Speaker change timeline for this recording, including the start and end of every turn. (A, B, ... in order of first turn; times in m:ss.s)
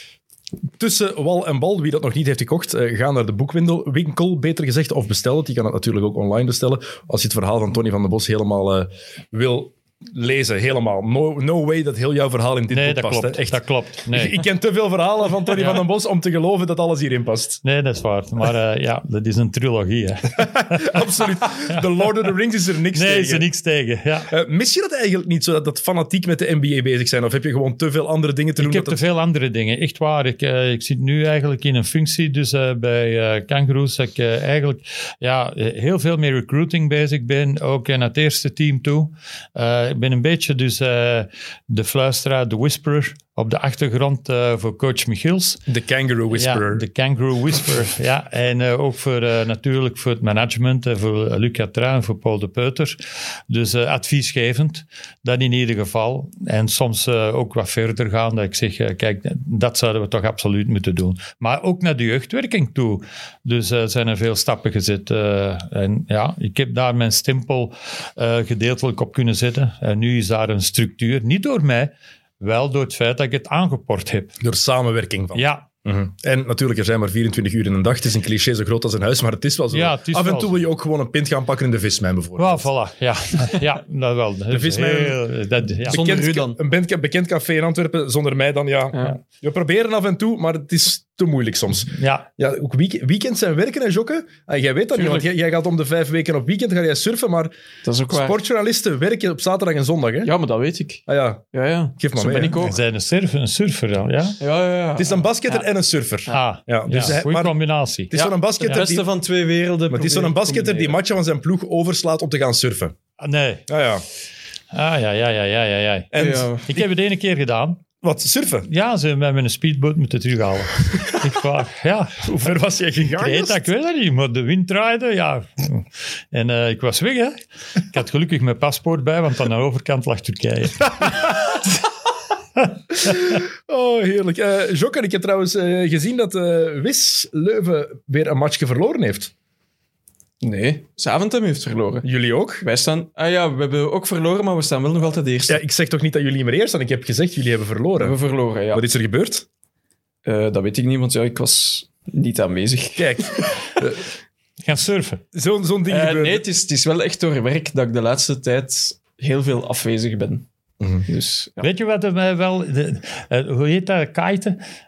0:00.8-0:17.6 A
0:12.7-0:14.4 B
0:15.6-0:15.8 B
0:17.6-0:21.1 B
0:20.4-0:23.4 A
0:22.9-0:24.3 B
0:24.3-0:29.0 A
0:28.6-0:45.6 B
0:45.7-0:46.8 A
0:46.3-0:53.0 B
0:53.5-1:14.4 B
1:14.4-1:22.7 A
1:15.3-1:15.6 B
1:19.7-1:20.6 B
1:22.4-1:26.0 B
1:24.5-1:25.2 A
1:25.8-1:26.6 C
1:25.8-1:37.5 A
1:32.0-1:32.2 B
1:34.9-1:35.2 C
1:37.8-1:38.4 C
1:38.1-1:40.3 A
1:40.2-1:42.8 C
1:41.1-1:41.4 A
1:42.0-1:42.6 A
1:42.6-1:44.4 B
1:44.4-1:45.2 C
1:45.0-1:47.6 A
1:46.3-1:48.8 B
1:48.1-1:49.1 A
1:48.6-1:51.0 C
1:49.9-1:53.0 A
1:53.2-1:53.7 B
1:53.7-1:54.0 A
1:54.7-1:57.8 B
1:56.1-1:56.8 A
1:56.1-1:56.7 C
1:58.0-1:58.7 A
1:58.6-2:02.3 B
2:02.2-2:03.6 A
2:03.0-2:11.6 B
2:13.0-2:19.3 A
2:13.0-2:13.4 B
2:20.4-2:22.1 C
2:22.0-2:22.6 A
2:22.6-2:25.6 C
2:25.4-2:28.1 A
2:28.0-2:28.8 C
2:28.7-2:29.4 A
2:30.2-2:33.8 C
2:33.0-2:34.0 A
2:34.6-2:35.2 B
2:35.3-2:36.4 A
2:35.9-2:40.5 C
2:40.8-2:41.0 A
2:41.0-2:41.7 C
2:41.6-2:44.6 B